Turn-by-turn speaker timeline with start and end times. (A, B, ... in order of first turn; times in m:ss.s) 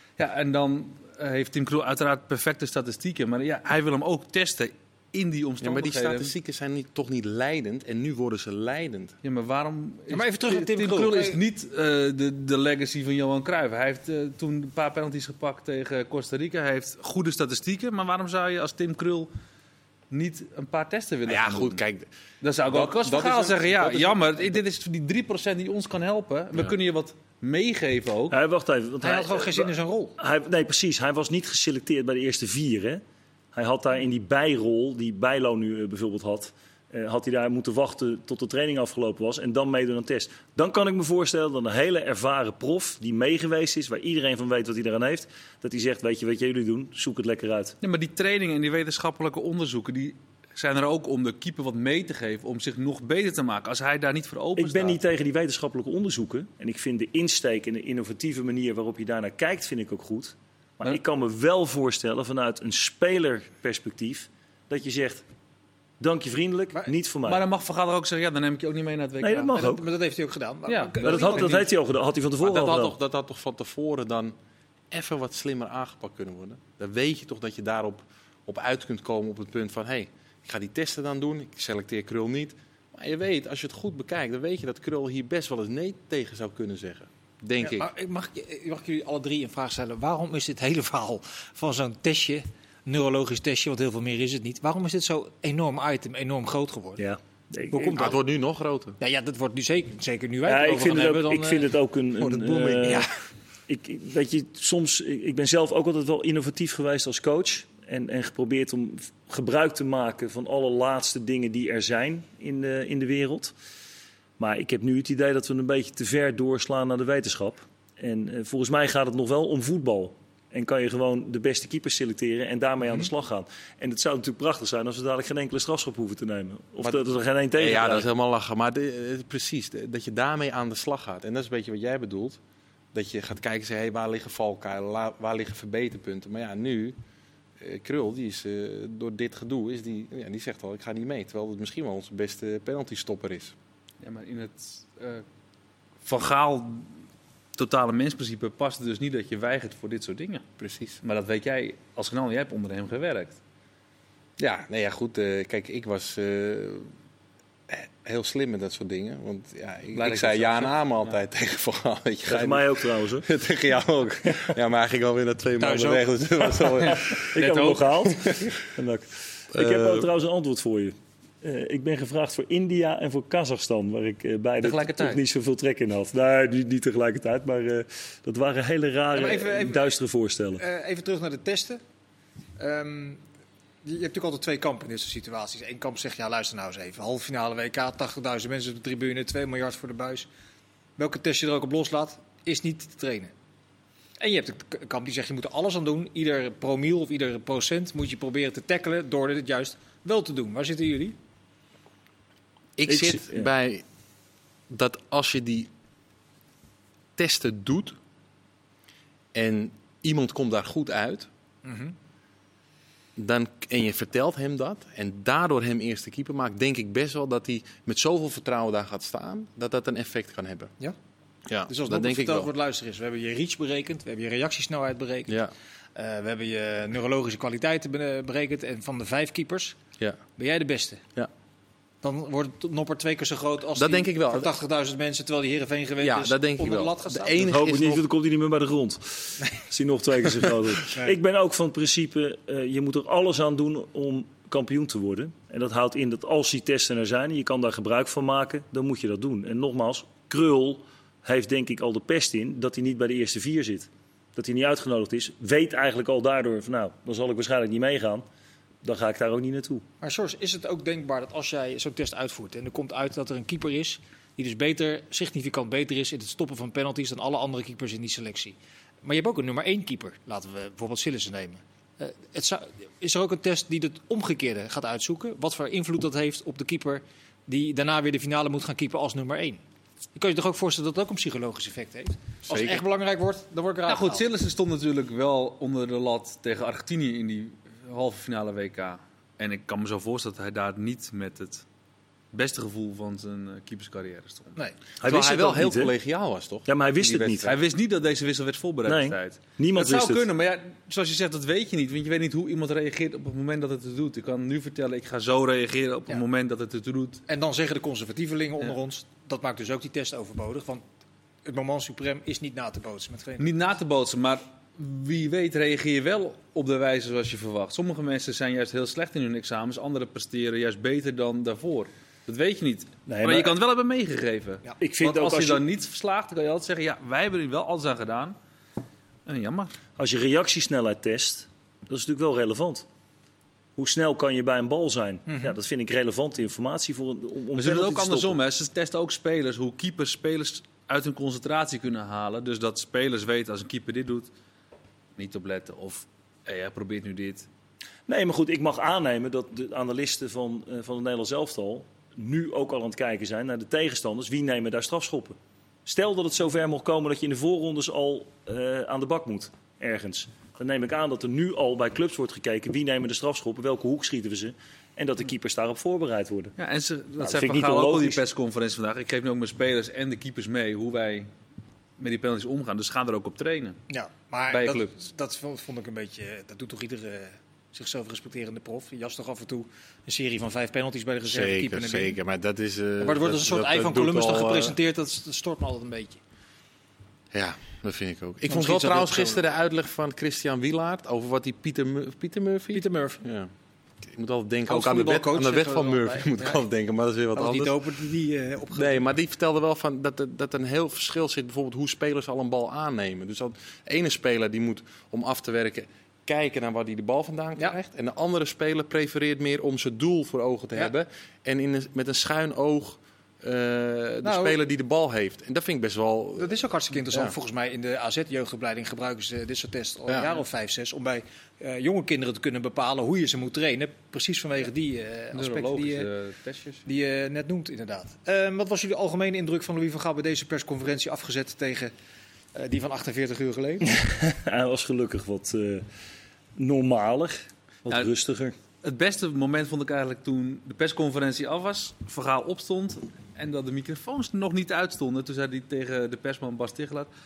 0:00.2-0:06.3 A
0:05.6-0:09.1 B
0:09.2-0:19.3 A
0:10.1-0:11.4 C
0:20.1-0:21.8 A
0:21.3-0:22.1 B
0:22.4-0:28.4 A
0:22.7-0:24.5 B
0:28.3-0:33.0 D
0:29.0-0:30.2 C
0:33.5-0:47.8 D
0:47.8-0:55.0 A
0:54.6-1:05.2 D
1:06.0-1:07.4 D
1:07.2-1:09.7 A
1:09.2-1:09.8 D
1:09.5-1:11.7 C
1:10.7-1:11.6 A
1:11.0-1:13.0 D
1:12.4-1:14.3 B
1:14.9-1:27.9 B
1:27.6-1:37.0 C
1:37.0-1:38.1 D
1:37.7-1:38.2 C
1:37.9-1:39.0 B
1:39.0-1:43.1 C
1:40.4-1:43.1 D
1:43.7-1:53.5 D
1:54.4-2:08.1 D
2:06.8-2:12.4 B
2:12.9-2:17.0 B
2:17.6-2:23.5 B
2:24.0-2:25.2 A
2:26.0-2:26.9 A
2:27.6-2:30.4 A
2:30.6-2:31.0 B
2:31.0-2:33.4 A
2:34.4-2:36.9 B
2:37.7-2:47.4 B
2:39.9-2:40.8 A
2:42.3-2:43.3 D
2:45.6-2:46.6 C
2:46.8-2:48.1 A
2:46.8-3:00.6 D
2:48.2-2:48.5 B
2:49.5-2:50.1 B
2:54.6-2:55.2 A
2:59.1-2:59.8 C
3:00.6-3:01.8 C
3:02.6-3:03.2 C
3:03.8-3:10.3 C
3:11.0-3:13.3 C
3:14.2-3:21.2 C
3:22.8-3:23.8 B
3:22.9-3:23.5 D
3:24.7-3:25.7 B
3:27.2-3:28.0 B
3:29.3-3:31.3 B
3:31.6-3:31.9 C
3:33.2-3:40.7 B
3:41.5-3:42.5 B
3:41.7-3:45.4 C
3:45.9-3:49.8 C
3:50.4-3:51.0 C
3:52.0-3:57.4 C
3:53.8-3:54.5 B
3:56.0-3:58.0 B
3:57.4-4:18.2 D
4:00.9-4:01.1 C
4:18.8-4:19.8 D
4:20.0-4:39.6 C
4:40.1-4:44.2 C
4:42.4-4:42.8 B
4:43.9-4:51.6 A
4:52.3-4:54.6 A
4:55.0-4:55.9 D
4:55.0-4:57.6 B
4:56.7-4:57.5 D
4:57.4-5:07.2 A
4:58.8-5:00.2 D
5:07.3-5:10.8 C
5:11.4-5:13.5 C
5:13.4-5:28.4 A
5:23.1-5:23.5 D
5:24.8-5:25.6 D
5:29.2-5:29.7 A
5:30.0-5:32.8 D
5:33.8-5:38.4 D
5:35.3-5:35.5 C
5:37.6-5:44.3 A
5:45.2-5:47.5 A
5:48.1-6:06.5 D
6:06.6-6:11.3 A
6:07.2-6:08.2 D
6:12.0-6:13.8 A
6:13.9-6:22.2 C
6:14.5-6:14.9 A
6:21.3-6:24.8 B
6:23.0-6:26.2 C
6:27.3-6:33.5 B
6:28.5-6:29.4 C
6:32.7-6:33.2 C
6:34.0-6:37.8 B
6:34.7-6:36.6 C
6:37.3-6:39.0 C
6:38.7-6:56.6 B
6:54.2-6:54.6 C
6:56.4-7:06.1 C
7:05.3-7:06.8 A
7:06.8-7:11.9 C
7:12.5-7:14.0 C
7:13.9-7:15.8 D
7:16.6-7:18.5 D
7:18.8-7:27.1 A